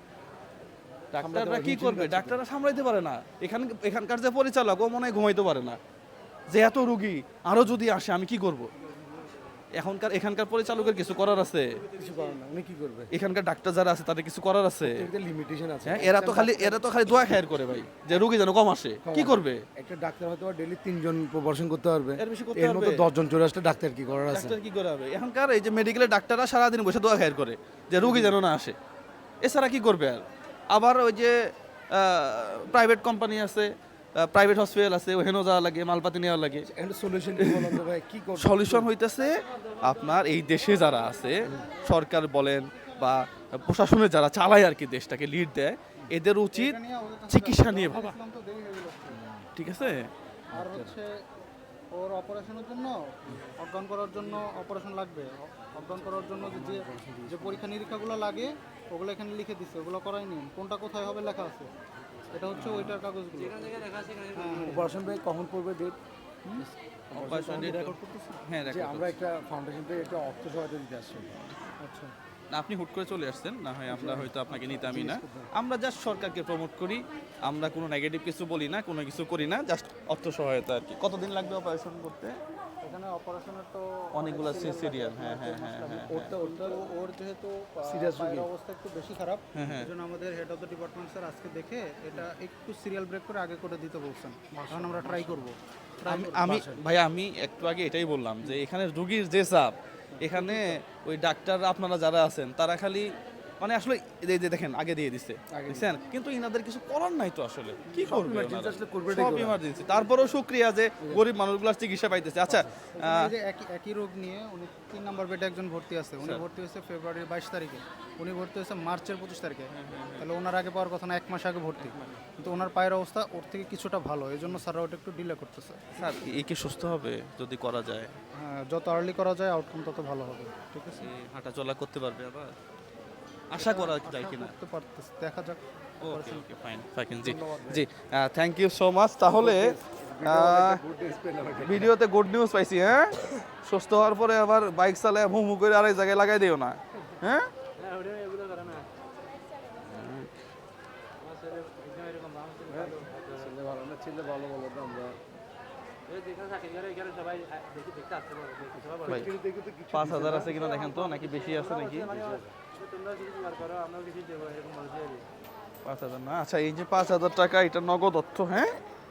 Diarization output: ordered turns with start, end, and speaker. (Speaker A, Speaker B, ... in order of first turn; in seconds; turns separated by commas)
Speaker A: 1.1-5.8, Speaker B: 1.2-2.4, Speaker A: 6.5-8.7, Speaker A: 9.8-11.8, Speaker C: 11.8-12.2, Speaker B: 11.9-13.1, Speaker A: 13.1-15.1, Speaker B: 14.8-16.8, Speaker A: 15.8-19.6, Speaker B: 19.0-24.6, Speaker A: 22.2-23.0, Speaker A: 24.3-28.8, Speaker B: 28.0-28.4, Speaker A: 29.4-31.3, Speaker A: 31.9-36.7, Speaker B: 36.6-38.9, Speaker A: 37.4-37.8, Speaker A: 38.4-46.8, Speaker D: 46.5-49.2, Speaker A: 47.3-48.1, Speaker A: 49.5-50.1, Speaker B: 50.5-51.0, Speaker D: 50.5-51.1, Speaker D: 51.9-61.7, Speaker B: 56.3-57.6, Speaker D: 62.3-63.8, Speaker B: 62.6-63.0, Speaker A: 62.6-63.0, Speaker C: 63.3-64.8, Speaker D: 64.3-64.9, Speaker B: 64.6-66.0, Speaker B: 67.1-68.0, Speaker A: 67.2-69.1, Speaker D: 67.3-68.4, Speaker B: 68.6-71.3, Speaker D: 71.8-72.1, Speaker A: 72.5-82.4, Speaker B: 73.9-75.5, Speaker D: 82.8-96.3, Speaker A: 84.2-86.4, Speaker B: 86.0-86.8, Speaker B: 87.9-88.5, Speaker A: 89.5-89.9, Speaker B: 94.5-95.5, Speaker A: 96.1-113.3, Speaker B: 96.2-96.8, Speaker D: 100.2-100.7, Speaker B: 105.5-105.9, Speaker B: 107.9-109.6, Speaker B: 112.5-112.7, Speaker D: 112.9-125.9, Speaker A: 119.7-120.3, Speaker A: 121.8-122.2, Speaker A: 126.0-128.2, Speaker D: 128.3-131.1, Speaker A: 131.0-132.6, Speaker A: 133.5-134.5, Speaker D: 133.5-136.5, Speaker A: 136.0-140.8, Speaker B: 137.2-137.8, Speaker B: 139.3-141.9, Speaker A: 141.6-147.5, Speaker C: 147.8-148.9, Speaker A: 149.8-150.3, Speaker C: 151.2-153.5, Speaker B: 152.7-155.2, Speaker C: 156.1-159.3, Speaker B: 158.9-160.6, Speaker A: 159.9-162.1, Speaker C: 160.4-165.2, Speaker B: 162.1-162.5, Speaker A: 165.8-168.7